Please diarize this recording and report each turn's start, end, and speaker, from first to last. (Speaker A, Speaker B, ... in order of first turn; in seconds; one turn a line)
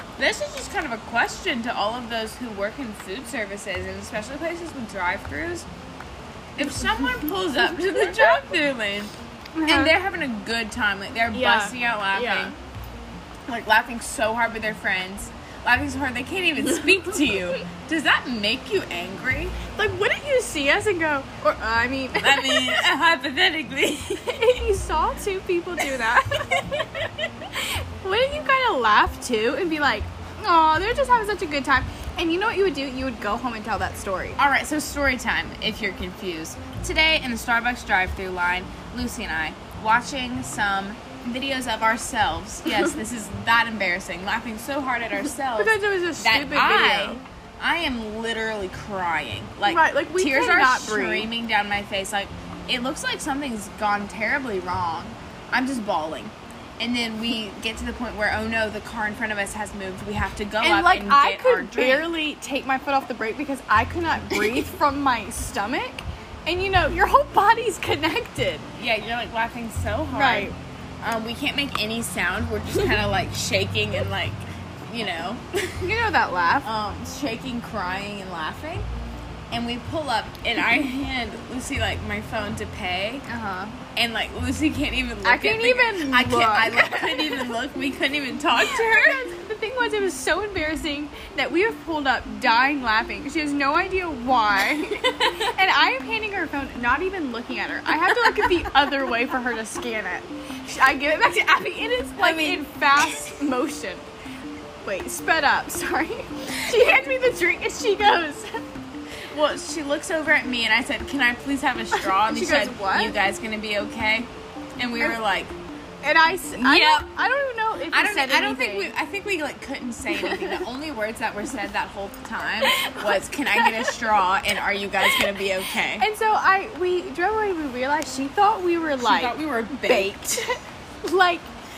Speaker A: 0.2-5.7
Speaker A: 6.5-9.1
Speaker B: 9.6-9.9
Speaker A: 9.7-12.5
Speaker B: 11.3-12.5
Speaker A: 13.5-19.6
Speaker B: 19.7-22.8
Speaker A: 22.2-24.3
Speaker B: 24.2-34.4
Speaker A: 34.4-62.1
Speaker B: 45.6-47.2
Speaker B: 49.7-51.3
Speaker B: 60.6-68.7
Speaker A: 68.8-75.9
Speaker B: 70.1-70.5
Speaker B: 75.8-76.7
Speaker A: 76.6-78.9
Speaker A: 79.5-83.2
Speaker B: 83.3-83.8
Speaker A: 83.9-89.3
Speaker B: 85.2-87.5
Speaker B: 88.6-104.0
Speaker A: 102.2-103.3
Speaker B: 104.8-108.5
Speaker A: 109.3-115.5
Speaker B: 111.9-113.2
Speaker B: 116.0-118.9
Speaker A: 116.6-117.0
Speaker A: 117.9-126.1
Speaker B: 120.2-120.6
Speaker B: 122.6-124.0
Speaker B: 126.0-131.4
Speaker A: 129.0-130.4